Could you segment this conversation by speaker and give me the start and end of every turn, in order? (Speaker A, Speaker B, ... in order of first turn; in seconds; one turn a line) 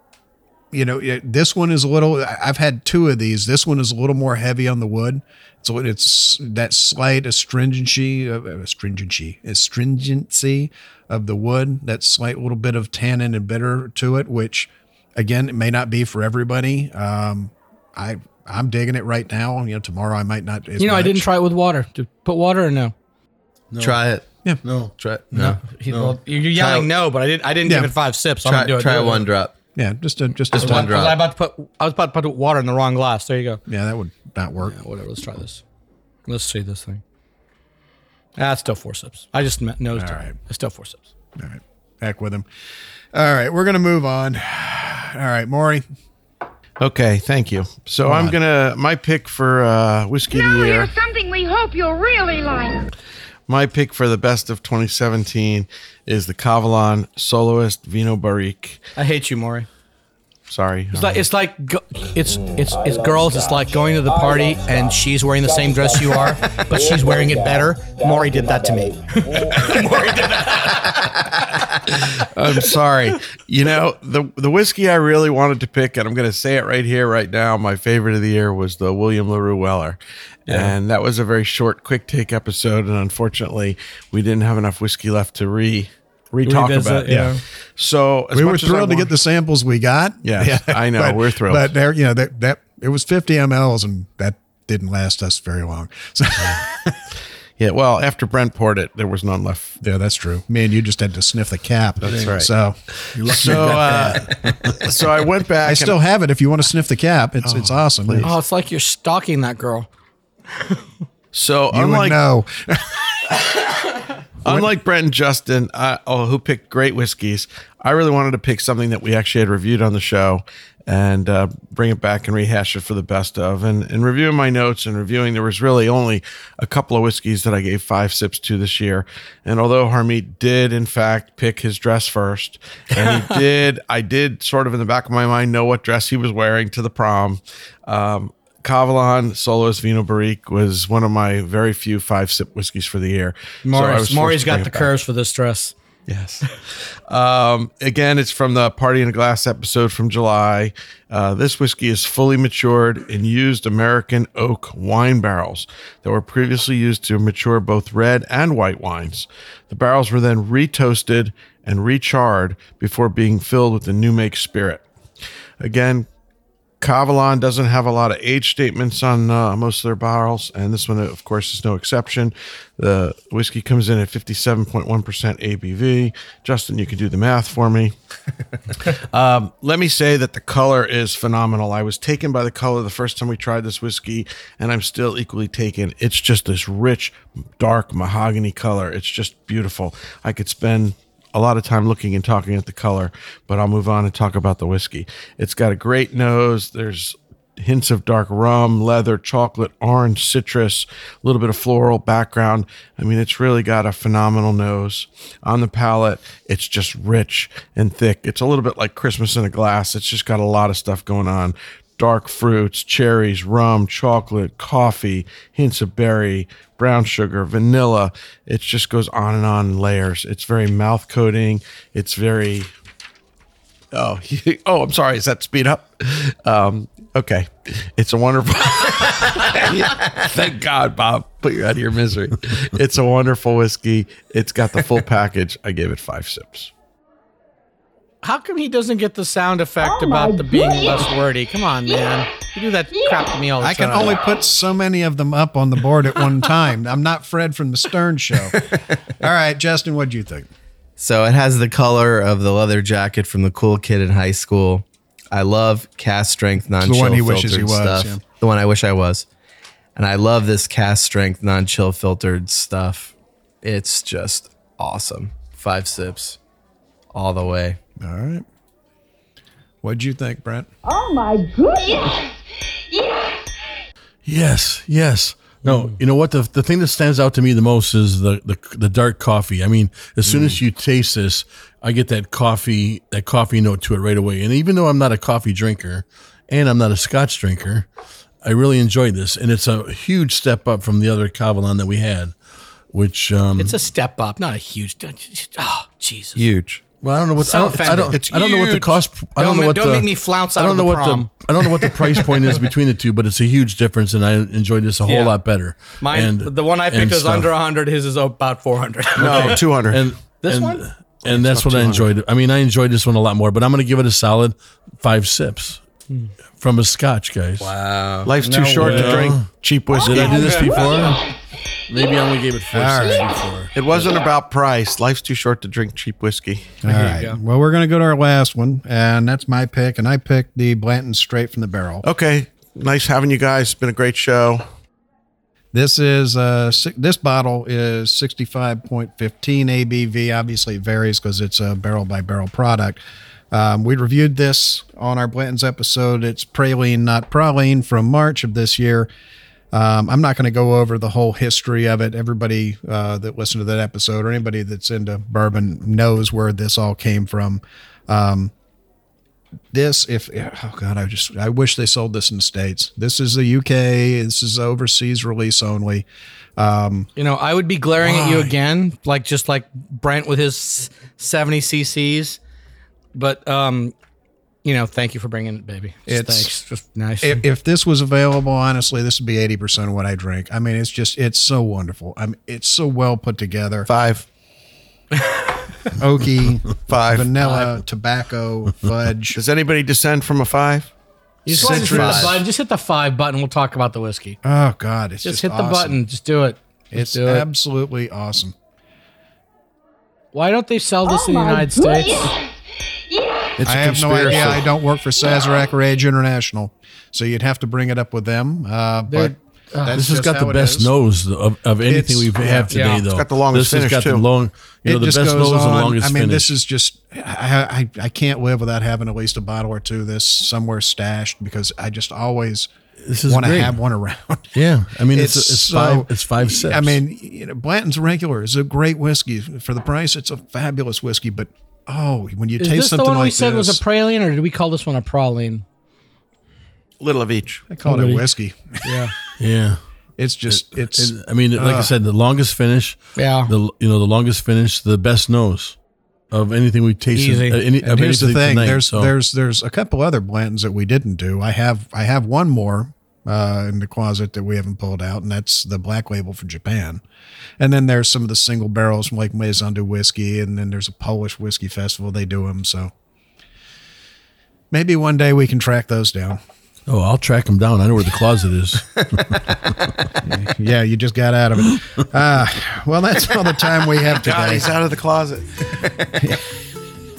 Speaker A: 0.7-21.3
Speaker B: 20.8-22.9
Speaker C: 23.7-24.0
Speaker D: 23.8-24.4
Speaker C: 24.6-26.2
Speaker D: 25.0-25.6
Speaker B: 25.4-29.3
Speaker D: 26.5-26.9
Speaker A: 27.7-27.9
Speaker D: 28.4-29.6
Speaker A: 29.8-31.1
Speaker D: 30.5-31.3
Speaker B: 30.6-33.6
Speaker A: 33.7-34.8
Speaker B: 34.6-35.6
Speaker B: 36.3-37.0
Speaker B: 38.4-41.1
Speaker A: 40.0-40.4
Speaker A: 41.4-42.5
Speaker A: 43.1-45.8
Speaker E: 46.8-50.9
Speaker A: 48.0-48.4
Speaker F: 51.3-52.7
Speaker E: 53.5-58.8
Speaker B: 59.0-59.7
Speaker E: 60.5-61.2
Speaker B: 60.9-71.7
Speaker F: 62.8-63.3
Speaker F: 64.1-64.5
Speaker F: 66.9-67.4
Speaker F: 68.0-68.8
Speaker E: 71.9-89.1
Speaker B: 86.5-87.4
Speaker A: 87.1-87.3
Speaker A: 88.3-97.0
Speaker E: 90.2-91.7
Speaker E: 97.6-99.8
Speaker A: 99.8-104.3
Speaker E: 102.0-106.0
Speaker C: 103.2-104.8
Speaker A: 105.6-108.3
Speaker E: 107.4-108.3
Speaker B: 108.2-109.9
Speaker B: 110.6-110.8
Speaker E: 111.3-112.2
Speaker A: 111.7-112.9
Speaker E: 113.3-113.6
Speaker E: 114.4-144.9
Speaker B: 143.7-145.7
Speaker E: 146.1-164.8
Speaker E: 165.6-166.1
Speaker E: 166.8-177.9
Speaker E: 178.8-222.7
Speaker E: 223.9-236.7
Speaker B: 238.2-244.2
Speaker G: 239.8-241.1
Speaker A: 243.6-250.5
Speaker D: 248.7-249.0
Speaker D: 251.0-259.3
Speaker A: 256.6-258.2
Speaker D: 260.0-266.4
Speaker D: 267.1-267.8
Speaker A: 268.0-268.5
Speaker A: 269.8-270.7
Speaker G: 270.8-272.2
Speaker C: 274.2-287.9
Speaker E: 280.3-280.6
Speaker C: 288.4-292.4
Speaker C: 292.9-293.8
Speaker B: 293.6-296.4
Speaker E: 296.4-296.8
Speaker C: 297.0-307.5
Speaker B: 297.4-302.4
Speaker E: 298.1-298.9
Speaker B: 305.0-305.4
Speaker B: 306.0-309.6
Speaker E: 309.2-310.1
Speaker C: 309.2-315.8
Speaker B: 310.4-310.9
Speaker E: 311.4-312.1
Speaker C: 316.6-318.2
Speaker B: 317.6-319.3
Speaker E: 318.2-320.9
Speaker C: 318.8-321.2
Speaker G: 320.5-321.0
Speaker C: 321.9-323.7
Speaker A: 322.7-323.3
Speaker E: 323.8-326.8
Speaker A: 326.8-332.1
Speaker B: 326.9-327.4
Speaker E: 332.0-334.6
Speaker A: 335.7-343.0
Speaker A: 343.5-349.1
Speaker A: 349.7-358.5
Speaker A: 359.7-366.1
Speaker A: 366.6-367.1
Speaker B: 367.2-372.4
Speaker A: 368.0-368.5
Speaker B: 373.1-373.9
Speaker B: 374.6-377.4
Speaker A: 376.1-376.5
Speaker A: 377.2-383.9
Speaker E: 383.9-384.3
Speaker A: 386.0-389.4
Speaker E: 386.9-387.3
Speaker B: 387.4-387.7
Speaker E: 389.4-390.9
Speaker B: 391.5-394.4
Speaker A: 391.5-392.4
Speaker D: 391.5-392.4
Speaker A: 394.4-396.0
Speaker B: 395.2-397.5
Speaker A: 396.9-398.6
Speaker B: 400.3-402.3
Speaker G: 401.1-402.2
Speaker E: 403.6-404.6
Speaker A: 403.6-410.9
Speaker B: 409.1-410.0
Speaker C: 409.9-416.5
Speaker A: 411.9-412.9
Speaker B: 412.7-413.0
Speaker E: 413.1-414.2
Speaker A: 414.9-422.7
Speaker C: 423.1-423.8
Speaker A: 423.3-433.8
Speaker C: 424.6-427.0
Speaker B: 432.6-435.6
Speaker E: 437.0-437.6
Speaker A: 437.7-439.1
Speaker B: 437.9-438.2
Speaker B: 438.8-439.1
Speaker C: 439.4-439.8
Speaker A: 440.2-441.9
Speaker C: 440.5-445.8
Speaker B: 443.2-443.5
Speaker C: 446.3-449.1
Speaker B: 447.1-447.6
Speaker A: 447.8-457.0
Speaker A: 457.6-462.9
Speaker A: 464.7-466.4
Speaker C: 466.9-470.1
Speaker A: 470.2-474.8
Speaker E: 474.1-475.7
Speaker A: 476.2-476.4